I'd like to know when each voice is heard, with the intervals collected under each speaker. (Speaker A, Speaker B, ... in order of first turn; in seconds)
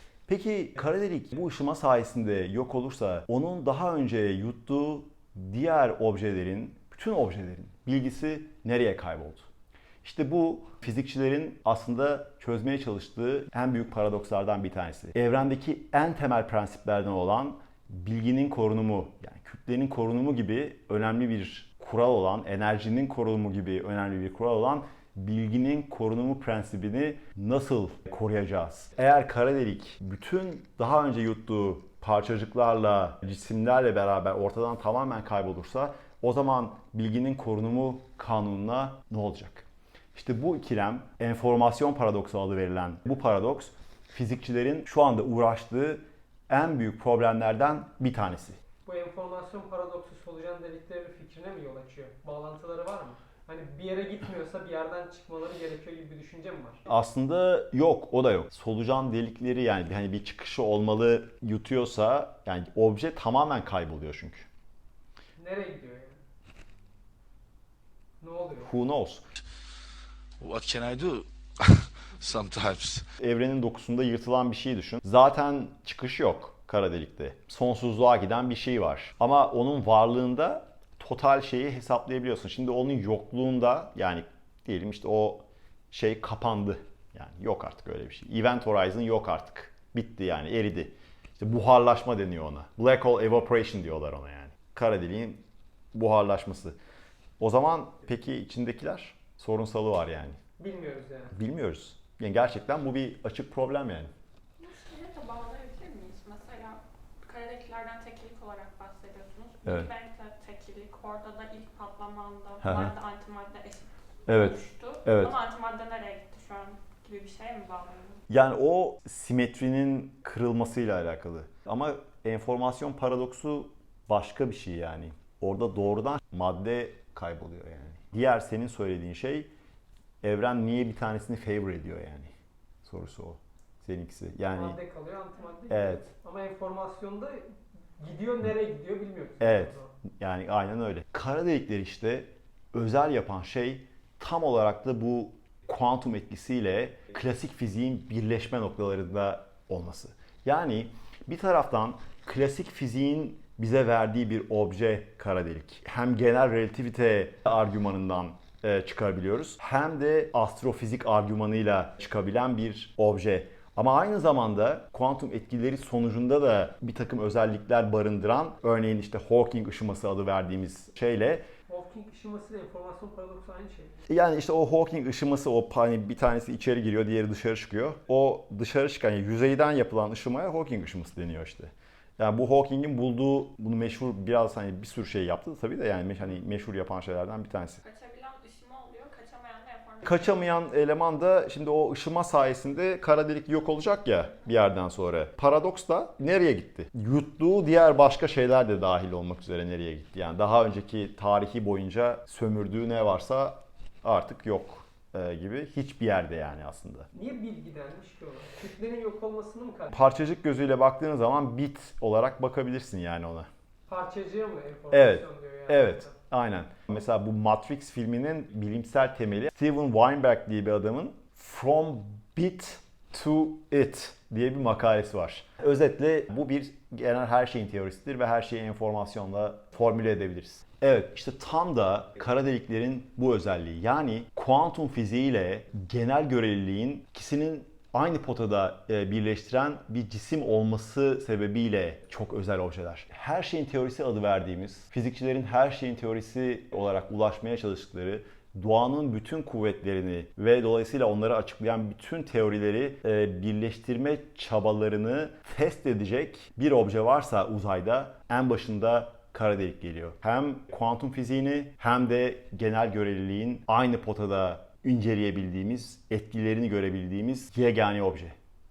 Speaker A: 0.3-9.5, 10.0-48.6, 56.9-64.5, 68.6-69.2, 73.2-96.8, 97.4-100.4, 101.3-104.1, 109.6-109.9, 112.6-112.9, 114.3-115.3, 118.3-129.5, 130.2-132.3, 132.8-134.8, 135.7-136.1, 139.4-171.4, 174.1-187.8, 190.0-207.1, 209.9-213.5, 214.9-268.3
Speaker B: 48.8-56.8, 65.4-66.2, 68.2-68.7, 100.6-101.3, 134.5-139.9, 171.7-173.9, 207.1-210.0, 213.9-216.1
Speaker C: 70.4-73.1
Speaker D: 104.6-118.2, 187.8-190.5